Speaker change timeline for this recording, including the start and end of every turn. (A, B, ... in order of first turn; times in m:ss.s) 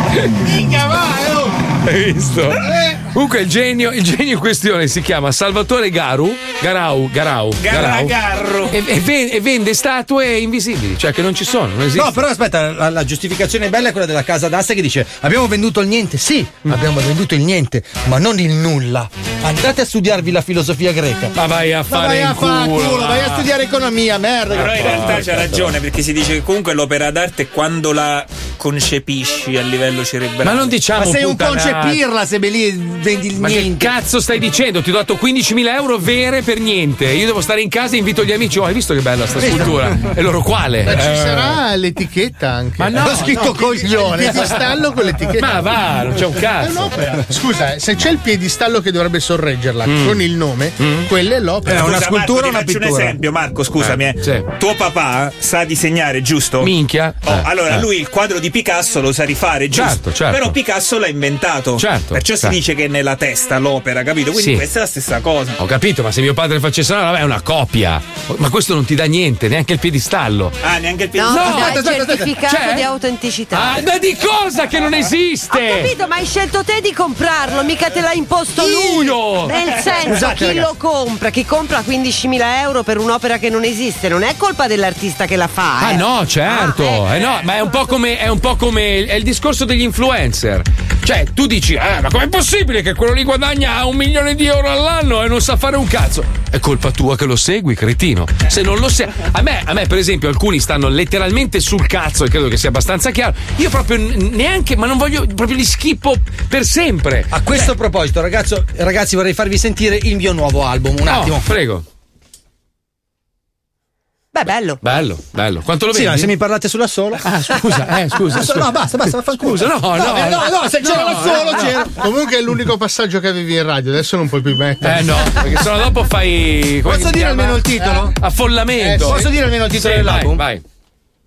0:00.4-0:01.6 A
0:01.8-0:08.2 B
0:02.6-0:03.0 A
0:07.6-0:08.8 C
0:08.7-0:12.2 B
0:11.9-0:21.4 D
0:21.4-0:23.5 B
0:21.9-0:25.2 D
0:24.5-0:25.7 B
0:24.5-0:30.7 C
0:30.4-0:32.0 B
0:31.0-0:33.9 D
0:33.4-0:41.6 B
0:39.4-0:39.8 D
0:40.8-0:45.7 A
0:42.8-0:43.6 B
0:43.0-0:44.6 D
0:44.2-0:44.6 B
0:45.4-0:46.9 B
0:46.6-0:51.8 A
0:49.8-0:50.2 B
0:50.8-0:51.1 B
0:51.6-0:53.2 D
0:51.7-1:05.6 C
0:53.8-0:54.5 B
0:56.6-0:57.9 B
0:59.7-1:00.6 B
1:01.8-1:02.6 B
1:04.3-1:04.6 B
1:05.6-1:10.6 B
1:10.6-1:11.8 C
1:11.2-1:13.8 E
1:11.3-1:12.9 B
1:11.5-1:12.3 D
1:13.5-1:15.9 B
1:15.5-1:27.2 E
1:18.6-1:19.6 B
1:19.6-1:20.4 C
1:20.2-1:20.6 D
1:25.8-1:47.5 B
1:47.3-1:51.5 D
1:51.1-1:51.8 B
1:54.3-1:54.8 E
1:54.8-1:56.3 B
1:55.9-1:57.4 D
1:57.2-1:58.8 B
1:58.3-2:02.0 D
1:59.4-2:01.8 B
2:00.8-2:05.4 A
2:04.8-2:10.6 B
2:06.8-2:08.2 D
2:07.8-2:08.1 A
2:08.8-2:09.2 A
2:09.0-2:10.4 D